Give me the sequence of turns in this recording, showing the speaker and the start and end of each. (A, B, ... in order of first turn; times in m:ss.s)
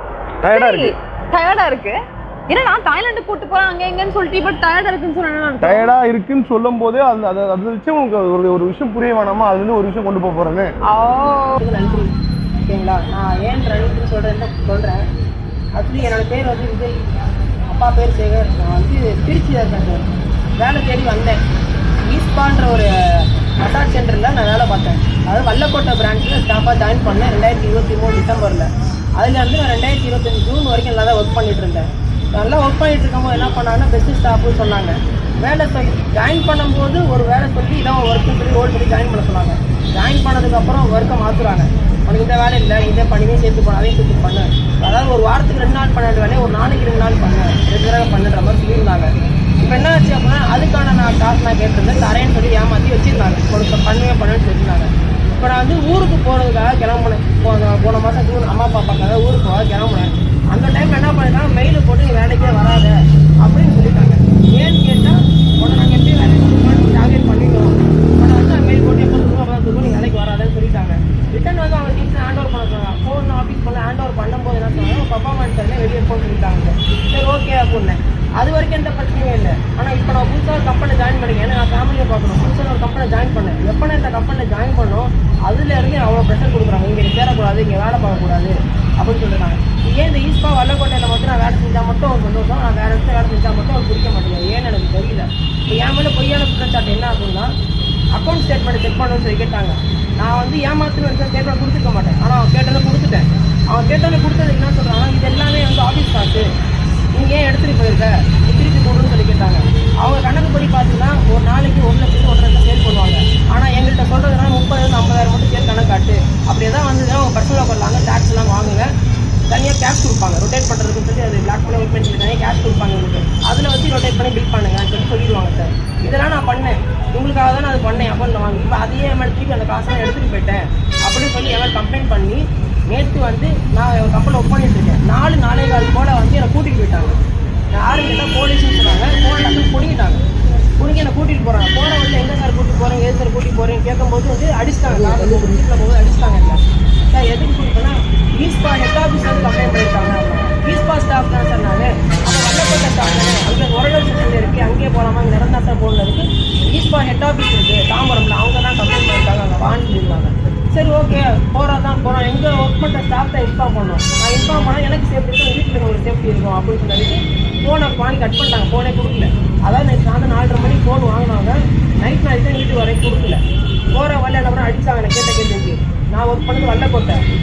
0:00.4-0:00.9 A
0:00.4-0:02.0 B
0:02.5-0:05.9 B
0:05.6-0:10.7 A
0:10.9-0:11.6 B
0:11.6-0:12.1 C
0:12.7-0:15.0 C
0:15.8-0:17.0 C
0:17.7-0:20.0 C
0:20.6-0:21.4 C
0:22.1-0:28.7 C
0:29.2-1:37.5 C
1:38.1-1:46.5 C
1:47.1-1:58.9 C
1:59.5-2:17.2 C
2:17.7-2:20.2 C
2:20.8-2:26.6 C
2:25.1-2:25.6 A
2:27.1-2:53.4 C
2:53.9-2:57.2 C